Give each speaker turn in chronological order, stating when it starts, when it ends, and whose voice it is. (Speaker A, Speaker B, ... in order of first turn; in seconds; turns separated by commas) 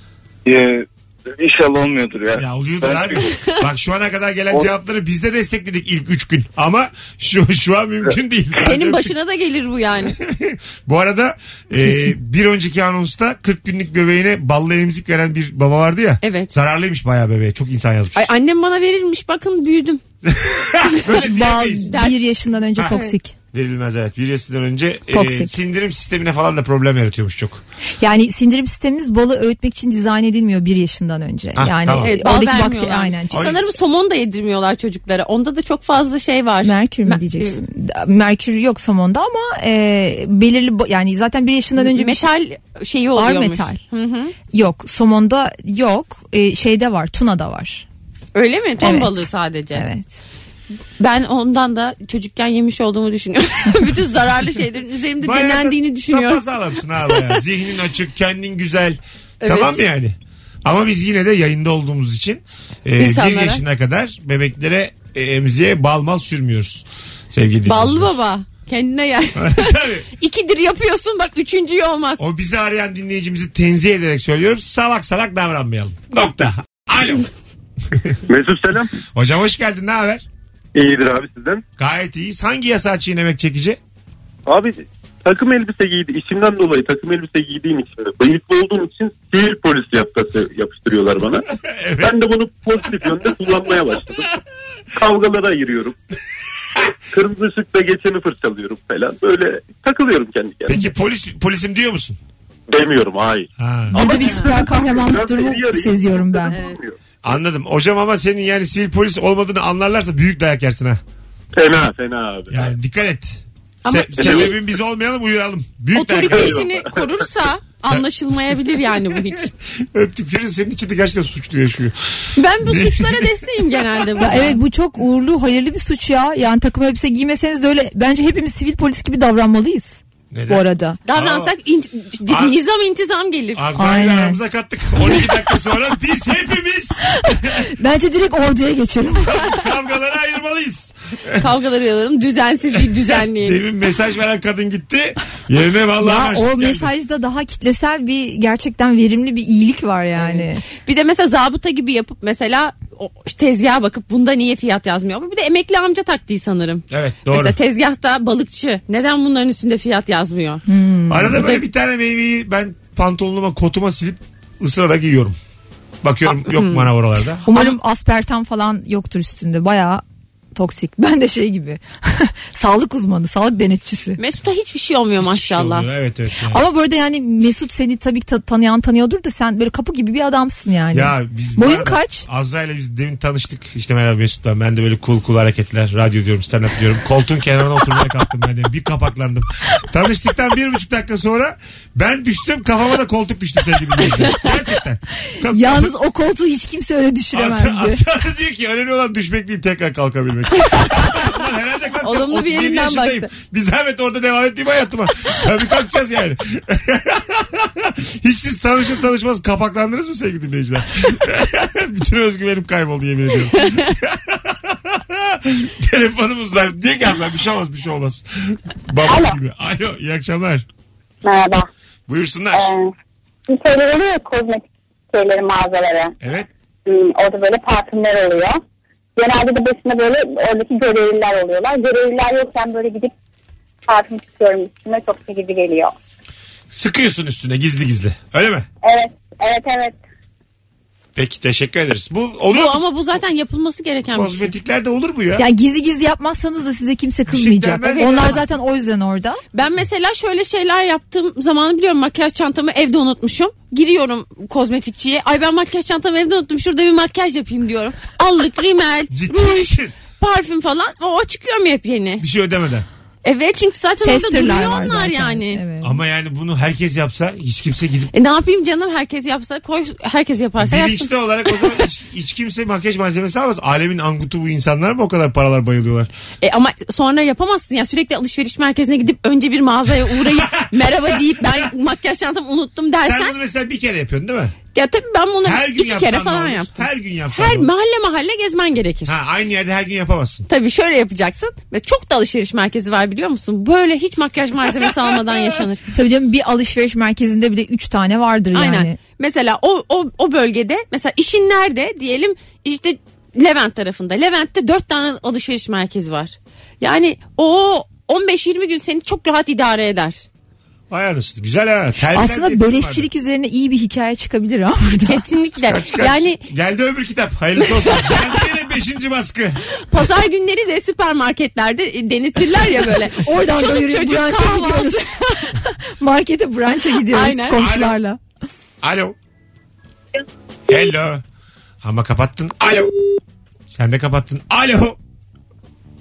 Speaker A: 0.5-3.2, Speaker B: 2.4-9.1, Speaker C: 8.6-10.2, Speaker B: 10.1-18.3, Speaker C: 16.2-16.5, Speaker C: 18.1-20.0, Speaker B: 20.2-21.9, Speaker C: 20.9-22.2, Speaker D: 21.1-23.3, Speaker B: 22.8-23.0, Speaker B: 23.5-27.6, Speaker D: 25.1-25.5, Speaker D: 28.0-33.5, Speaker B: 31.6-32.1, Speaker C: 32.0-37.6, Speaker B: 33.3-33.6, Speaker D: 36.6-42.3, Speaker C: 41.8-44.3, Speaker D: 43.2-43.8, Speaker D: 44.5-47.9, Speaker C: 48.4-49.9, Speaker D: 48.8-49.2, Speaker D: 49.8-50.1, Speaker C: 51.0-56.5, Speaker B: 55.2-68.1, Speaker C: 57.1-57.4, Speaker C: 59.4-59.9, Speaker C: 63.0-63.6, Speaker C: 67.7-72.2, Speaker B: 69.4-70.1, Speaker B: 72.2-77.3, Speaker E: 78.3-78.9, Speaker B: 79.2-80.3, Speaker E: 80.8-81.6, Speaker B: 81.8-83.8, Speaker E: 84.5-91.5, Speaker B: 91.6-92.2, Speaker E: 92.0-94.3, Speaker E: 94.9-96.0, Speaker E: 97.1-100.8, Speaker B: 100.7-102.2, Speaker E: 102.7-107.0, Speaker B: 103.6-104.0, Speaker D: 104.0-106.6, Speaker B: 107.2-111.0, Speaker E: 111.5-112.7, Speaker B: 112.5-116.6, Speaker C: 113.8-114.6, Speaker C: 115.9-119.5, Speaker E: 116.3-117.0, Speaker B: 119.9-123.3, Speaker C: 122.4-124.6, Speaker D: 124.2-131.0, Speaker B: 130.3-131.5, Speaker C: 131.1-133.7, Speaker B: 132.3-132.6, Speaker B: 133.5-137.7, Speaker D: 133.8-134.4, Speaker D: 137.2-139.7, Speaker B: 139.2-141.5, Speaker C: 141.4-143.6, Speaker B: 142.8-146.9, Speaker D: 146.0-150.6, Speaker C: 150.2-160.6, Speaker B: 156.9-157.6, Speaker D: 160.7-161.5, Speaker B: 161.1-165.4, Speaker B: 166.0-167.5, Speaker C: 166.5-166.9, Speaker D: 167.5-170.0, Speaker D: 170.6-174.2, Speaker C: 174.2-175.9, Speaker B: 175.2-176.6, Speaker D: 176.5-182.3, Speaker B: 180.9-195.9, Speaker D: 195.5-198.0, Speaker B: 197.3-220.7, Speaker C: 200.7-201.0, Speaker C: 202.0-203.3, Speaker F: 219.1-219.3, Speaker F: 221.2-221.7, Speaker B: 222.1-222.7, Speaker F: 222.5-222.9, Speaker F: 223.5-226.2, Speaker B: 226.2-226.5, Speaker F: 226.9-228.6, Speaker F: 229.2-233.1, Speaker F: 233.9-235.9, Speaker B: 236.7-238.7, Speaker F: 238.8-240.0, Speaker B: 241.2-242.9, Speaker C: 242.5-244.5, Speaker B: 244.1-245.4, Speaker D: 245.4-249.4, Speaker B: 247.3-248.4, Speaker C: 247.9-248.4, Speaker C: 249.5-262.2, Speaker B: 259.1-259.9, Speaker B: 262.2-262.9, Speaker C: 263.2-265.6, Speaker D: 264.1-266.0, Speaker B: 265.8-268.1, Speaker C: 268.1-271.8, Speaker B: 270.6-276.1, Speaker C: 276.4-283.3, Speaker B: 280.2-281.7, Speaker B: 283.1-284.6, Speaker C: 284.7-289.2, Speaker B: 285.4-287.7, Speaker B: 289.1-290.5, Speaker C: 290.5-295.9, Speaker D: 295.9-299.0, Speaker C: 298.5-310.2, Speaker B: 310.9-313.1, Speaker D: 312.1-315.2, Speaker C: 315.1-316.4, Speaker B: 315.6-319.6, Speaker C: 317.6-318.4, Speaker C: 319.8-325.5, Speaker D: 323.2-328.2, Speaker C: 327.1-327.7, Speaker B: 327.6-327.9, Speaker B: 328.8-329.2, Speaker B: 330.7-331.2, Speaker B: 331.8-332.9, Speaker B: 333.7-335.0